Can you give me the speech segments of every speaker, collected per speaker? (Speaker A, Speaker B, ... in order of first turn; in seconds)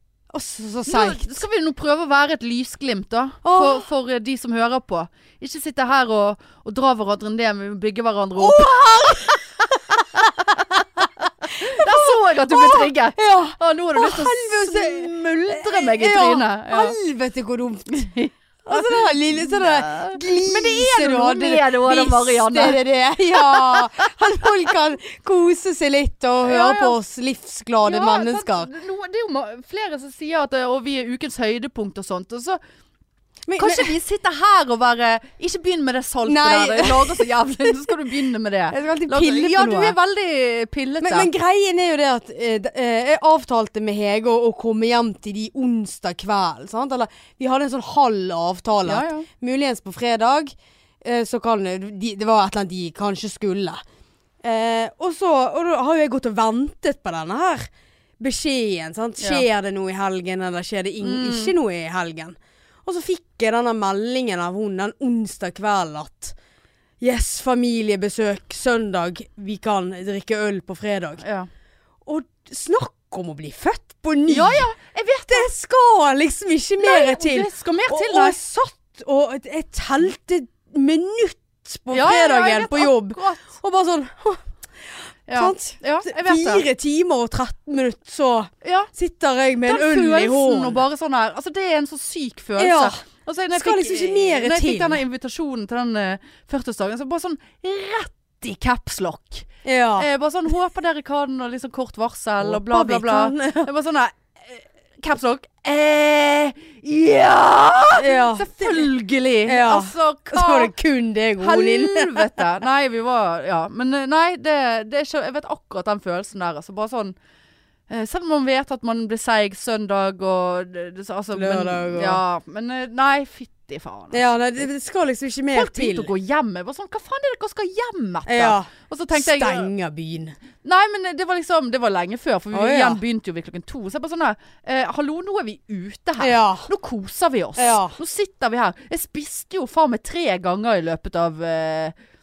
Speaker A: 0.3-1.4, 3.4-3.9, 8.4-18.0, 18.6-28.7, 33.5-33.9, 36.2-37.3, 38.7-40.0, 41.0-53.8, 54.4-57.7, 58.2-66.3, 67.0-71.2, 72.1-74.7, 75.3-90.8, 92.6-93.0, 93.5-95.0, 99.6-100.1, 102.4-103.7, 108.0-108.9, 109.5-112.5, 121.3-122.2, 124.1-126.1, 128.3-130.4, 132.5-133.0, 136.2-136.7, 137.6-138.0
Speaker B: 0.9-9.4, 10.2-10.8, 11.6-17.0, 17.9-22.8, 23.3-24.5, 26.4-27.0, 27.8-32.6, 33.6-41.3, 48.9-49.3, 59.2-59.5, 61.0-61.5, 71.2-71.5, 74.3-75.5, 76.8-78.4, 81.9-83.5, 85.3-86.7, 88.6-88.9, 89.7-110.7, 111.4-117.2, 117.9-124.2, 125.5-129.7, 130.6-141.9